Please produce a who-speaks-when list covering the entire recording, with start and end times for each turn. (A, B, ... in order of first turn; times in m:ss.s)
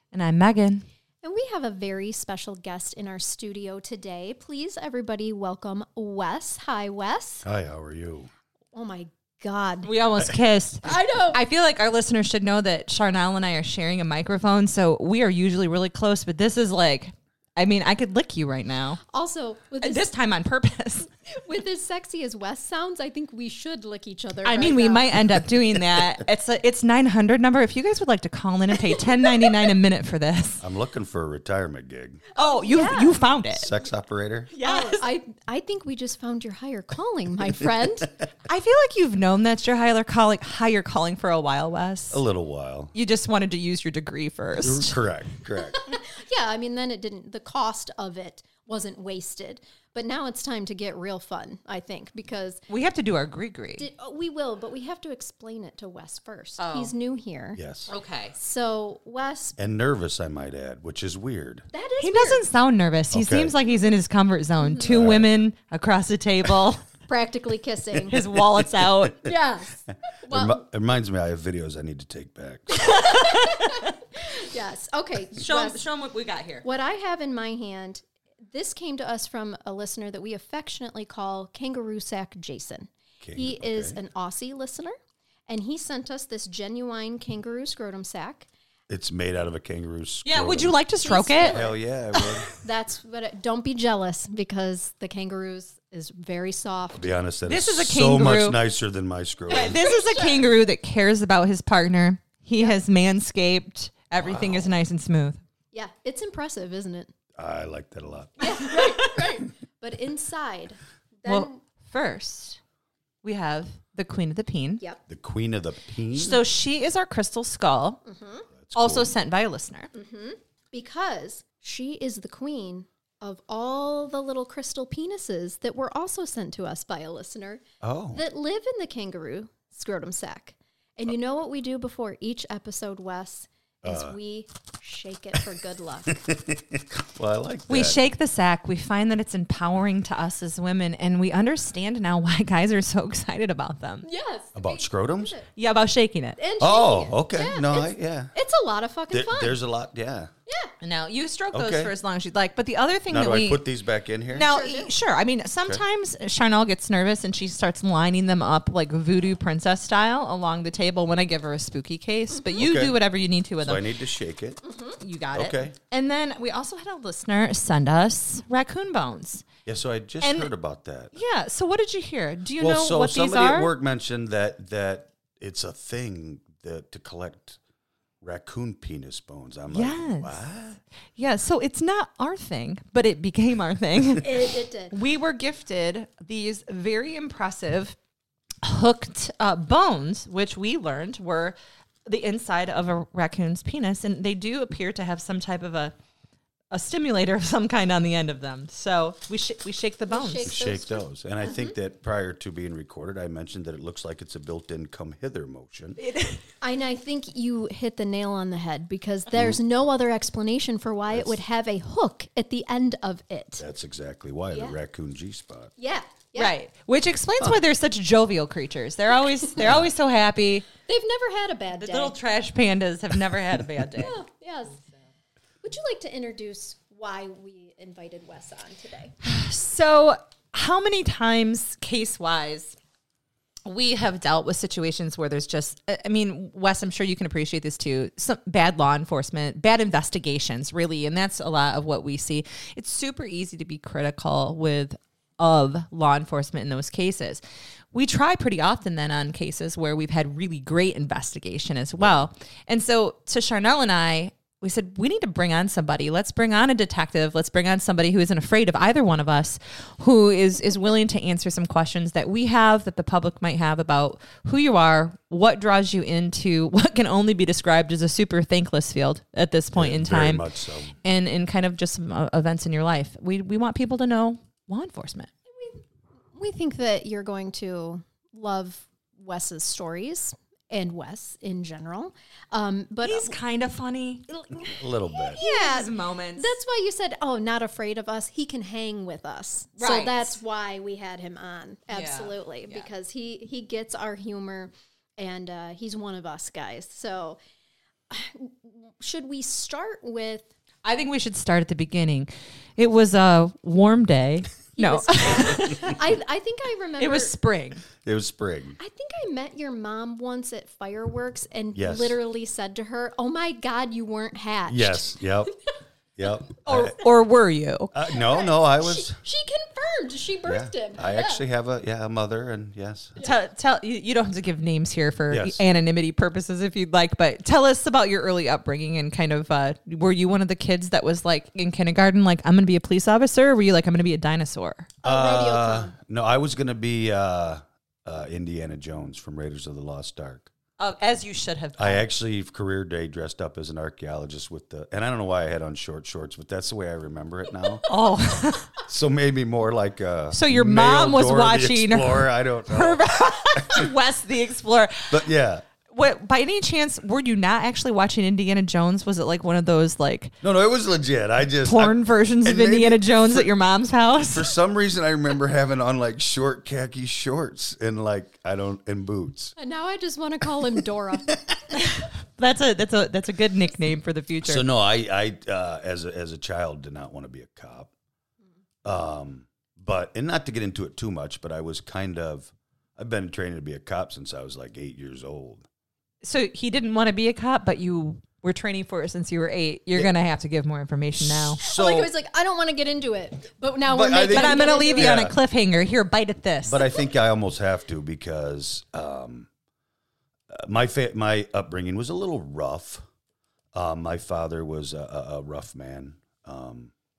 0:00.1-0:00.8 A
0:01.2-0:07.4 B
0:07.4-0:08.3 C
0:08.7-0:09.9 B
0:09.8-0:19.0 A
0:10.8-0:11.4 B
0:19.1-0:20.0 B
0:19.8-0:21.1 A
0:21.3-0:25.1 B
0:24.4-0:30.6 A
0:25.7-0:26.2 C
0:28.9-0:29.6 B
0:30.6-0:32.2 C
0:32.3-0:33.2 B
0:32.4-0:33.7 A
0:33.5-0:34.5 C
0:34.5-0:35.1 A
0:34.6-0:38.1 B
0:38.4-0:42.2 A
0:42.1-0:42.9 C
0:42.9-0:45.0 A
0:44.6-0:45.8 C
0:45.7-0:52.6 B
0:52.7-0:53.8 A
0:53.8-0:57.6 B
0:56.6-0:56.9 A
0:57.6-0:57.9 C
0:57.9-0:58.3 A
0:58.3-0:59.6 B
0:59.6-1:01.7 C
1:01.7-1:02.4 B
1:02.0-1:06.8 A
1:03.1-1:03.6 C
1:04.6-1:05.0 B
1:04.9-1:05.3 C
1:07.1-1:08.2 B
1:08.1-1:09.2 A
1:08.1-1:09.1 C
1:09.2-1:10.6 B
1:10.3-1:13.2 C
1:12.8-1:13.8 A
1:12.8-1:15.8 B
1:15.3-1:16.6 A
1:16.6-1:24.9 B
1:23.2-1:24.0 C
1:25.5-1:28.5 B
1:28.9-1:30.8 C
1:30.2-1:31.6 A
1:31.0-1:31.7 B
1:31.4-1:32.5 C
1:32.1-1:32.4 A
1:32.6-1:37.1 B
1:36.9-1:39.9 C
1:37.4-1:38.6 A
1:39.5-1:45.4 A
1:39.5-1:40.4 B
1:44.2-1:44.7 C
1:45.7-1:47.1 B
1:47.4-1:49.0 C
1:48.4-1:51.6 B
1:51.2-1:52.6 A
1:53.2-1:54.8 A
1:55.1-1:56.4 C
1:56.1-1:58.0 A
1:58.0-1:58.4 B
1:58.6-1:59.1 C
1:58.7-1:59.9 A
1:59.9-2:16.1 B
2:07.8-2:08.2 C
2:13.8-2:14.2 C
2:16.1-2:18.0 C
2:17.7-2:24.0 A
2:24.0-2:25.4 B
2:24.5-2:25.3 C
2:25.5-2:26.4 A
2:26.4-2:29.6 B
2:26.6-2:28.3 C
2:29.1-2:30.3 C
2:30.5-2:30.7 B
2:30.8-2:33.6 A
2:31.5-2:31.9 C
2:33.1-2:34.5 C
2:34.3-2:43.8 A
2:34.3-2:34.9 B
2:42.6-2:43.0 C
2:43.6-2:44.6 C
2:44.6-2:45.0 B
2:45.0-2:49.5 A
2:45.3-2:45.7 C
2:49.6-2:51.1 C
2:50.2-2:50.5 A
2:51.1-2:53.7 A
2:52.6-2:57.6 C
2:58.2-3:00.8 C
2:59.7-3:00.4 A
3:01.2-3:08.0 A
3:04.2-3:04.9 B
3:08.6-3:15.9 A
3:16.7-3:20.6 A
3:20.1-3:21.7 B
3:20.4-3:26.0 C
3:26.0-3:26.4 A
3:26.6-3:33.6 B
3:29.3-3:29.6 C
3:31.1-3:31.4 C
3:33.6-3:35.7 C
3:35.8-3:36.6 B
3:36.4-3:40.7 A
3:39.6-3:39.9 C
3:40.8-3:42.1 B
3:41.8-3:44.2 A
3:44.0-3:44.8 B
3:45.6-3:49.1 B
3:49.2-3:52.8 A
3:53.6-4:07.4 A
4:07.9-4:30.4 A
4:12.0-4:12.3 C
4:29.7-4:30.9 C
4:31.0-4:35.3 A
4:35.5-4:35.8 B
4:36.4-4:43.4 B
4:43.0-4:44.2 A
4:44.3-4:57.4 B
4:44.5-4:45.4 C
4:45.4-4:46.5 A
4:49.8-4:50.4 A
4:51.9-4:52.9 A
4:58.1-5:00.5 B
5:00.8-5:06.0 A
5:04.8-5:07.3 B
5:07.0-5:07.8 A
5:08.0-5:08.8 C
5:08.8-5:15.1 B
5:11.7-5:12.2 C
5:14.7-5:15.5 C
5:16.2-5:17.0 C
5:16.6-5:17.9 A
5:17.9-5:19.2 C
5:18.1-5:21.4 B
5:20.4-5:23.1 C
5:23.2-5:34.9 A
5:25.3-5:25.6 C
5:35.0-5:35.9 B
5:35.0-5:40.5 C
5:40.8-5:42.0 A
5:41.8-5:47.8 C
5:47.8-5:48.7 A
5:48.8-5:53.9 C
5:50.3-5:55.3 A
5:55.1-5:55.6 C
5:55.9-6:00.3 A
6:00.4-6:03.5 C
6:01.6-6:04.5 A
6:04.2-6:09.5 C
6:09.6-6:11.3 B
6:11.3-6:11.6 C
6:11.7-6:14.6 A
6:14.4-6:17.9 C
6:18.8-6:25.6 C
6:26.2-6:31.6 A
6:31.2-6:32.1 C
6:31.6-6:35.3 B
6:33.9-6:35.4 C
6:34.2-6:36.9 A
6:36.6-6:39.5 C
6:40.5-6:43.0 C
6:43.7-6:46.9 C